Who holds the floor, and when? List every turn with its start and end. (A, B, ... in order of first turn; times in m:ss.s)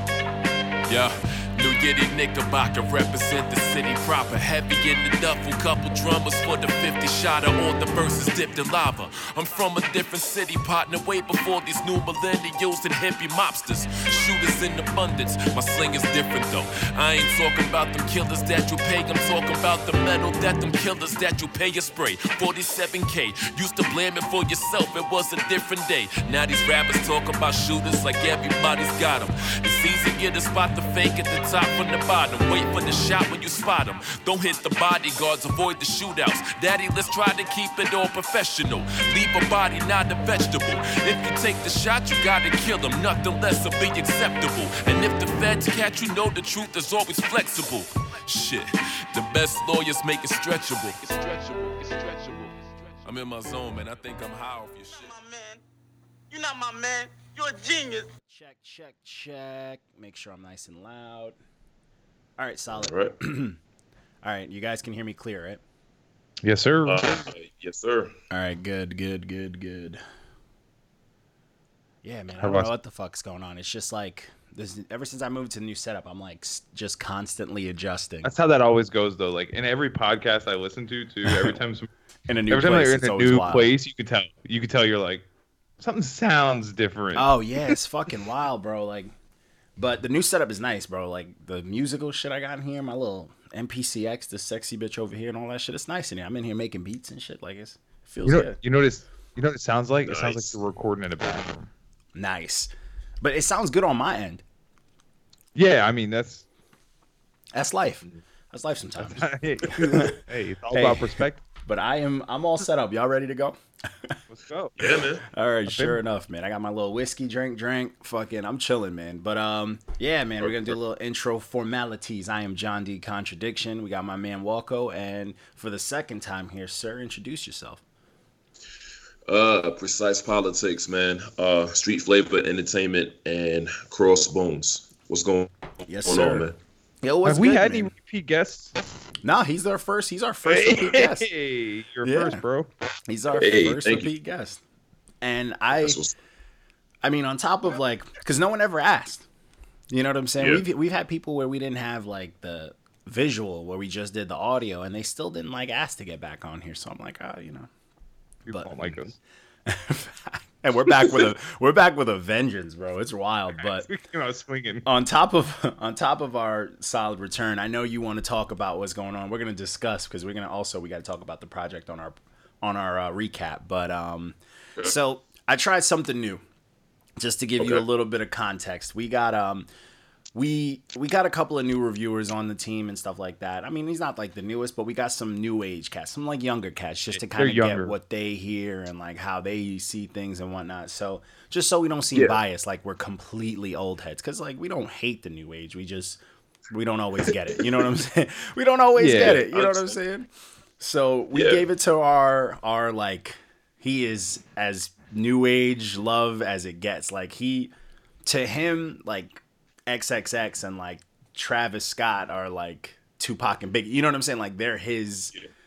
0:00.9-0:52.5 A
0:51.8-0:52.3 B
0:53.0-0:55.1 A
0:54.9-0:55.6 B
0:56.3-0:58.1 B
0:58.3-1:01.4 C
1:02.4-1:03.6 C
1:02.8-1:03.2 D
1:04.2-1:05.6 C
1:06.4-1:07.2 E
1:06.9-1:08.2 D
1:08.3-1:10.0 C
1:12.0-1:18.3 C
1:12.4-1:12.7 E
1:18.2-1:21.9 E
1:22.3-1:23.7 C
1:22.5-1:25.3 E
1:25.8-1:27.7 E
1:27.2-1:29.1 C
1:29.8-1:38.6 C
1:38.2-1:41.7 E
1:40.0-1:40.6 D
1:42.2-1:42.7 C
1:43.2-1:44.4 C
1:45.6-1:46.5 E
1:47.6-1:50.2 C
1:49.0-1:51.4 E
1:50.7-1:54.2 C
1:54.3-1:54.9 E
1:54.8-1:55.2 D
1:55.3-2:07.8 C
1:55.7-1:56.0 E
2:00.4-2:00.8 D
2:09.3-2:15.5 D
2:15.9-2:16.5 C
2:16.0-2:16.6 D
2:17.0-2:17.9 C
2:17.2-2:18.7 E
2:19.2-2:21.3 C
2:20.4-2:22.7 E
2:22.0-2:22.4 C
2:23.1-2:24.6 C
2:23.3-2:24.1 D
2:25.2-2:26.0 C
2:25.8-2:26.2 D
2:27.0-2:29.3 C
2:29.9-2:37.7 C
2:30.4-2:30.6 D
2:38.5-2:39.2 E
2:38.5-2:39.1 C
2:39.7-2:43.9 C
2:40.9-2:41.2 D
2:43.6-2:44.9 E
2:44.8-2:56.4 C
2:57.2-2:59.7 C
2:57.6-2:57.8 D
3:00.4-3:27.7 C
3:07.1-3:08.0 E
3:12.1-3:12.4 D
3:17.3-3:17.6 D
3:19.0-3:19.4 E
3:19.2-3:20.0 D
3:21.3-3:21.6 D
3:28.2-3:35.3 C